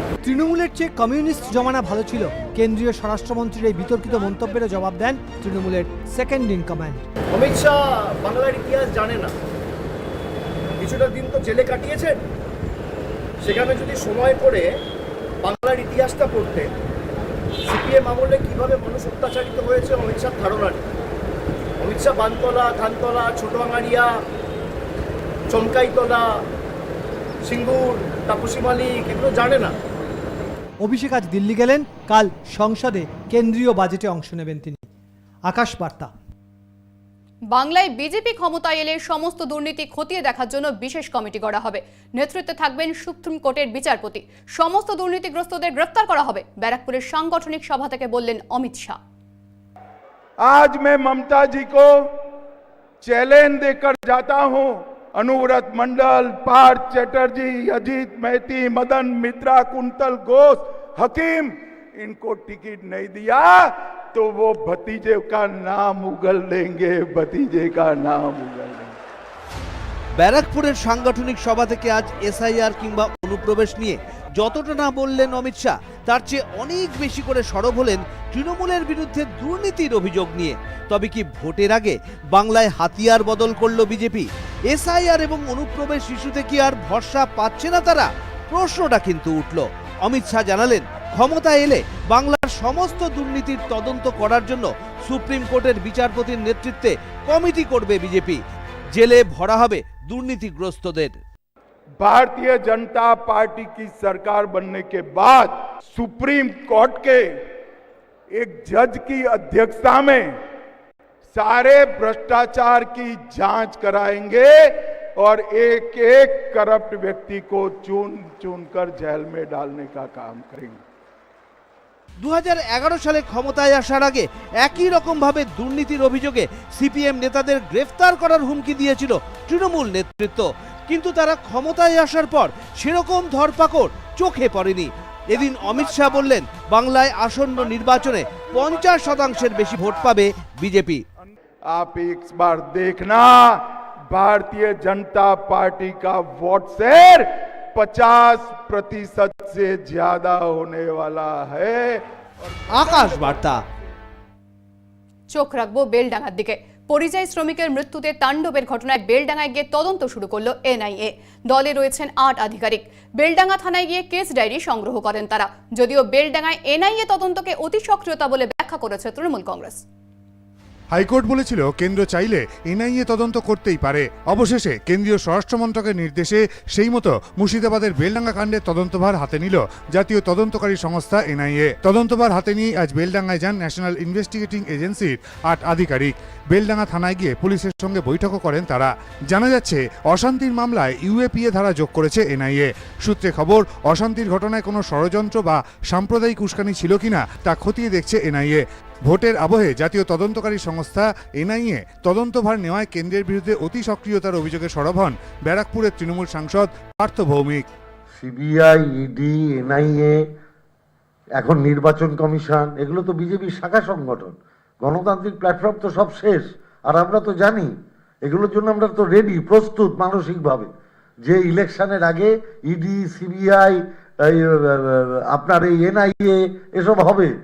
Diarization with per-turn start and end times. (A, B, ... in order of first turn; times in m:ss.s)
0:00.2-0:07.0 A
0:07.3-0:09.3 B
0:10.8-0:12.2 B
0:13.4-0:14.7 B
0:15.4-0:16.7 B
0:17.7-0:20.8 B
0:21.8-0:24.1 B
0:25.5-0:26.4 B
0:27.5-0:29.8 B
0:30.8-0:34.8 A
0:35.5-0:36.1 A
0:37.5-0:49.0 C
0:50.4-0:51.9 D
0:53.0-1:09.0 D
1:10.2-1:38.4 E
1:38.9-1:41.2 E
1:42.0-1:47.4 D
1:48.3-1:50.4 D
1:51.3-2:00.8 D
2:02.2-2:21.0 E
2:21.7-2:32.0 D
2:32.7-2:33.6 E
2:32.8-2:33.3 D
2:35.3-2:49.8 C
2:50.9-3:27.6 F
3:28.2-3:30.2 G
3:31.4-3:37.7 G
3:38.2-3:40.7 G
3:41.2-3:47.3 G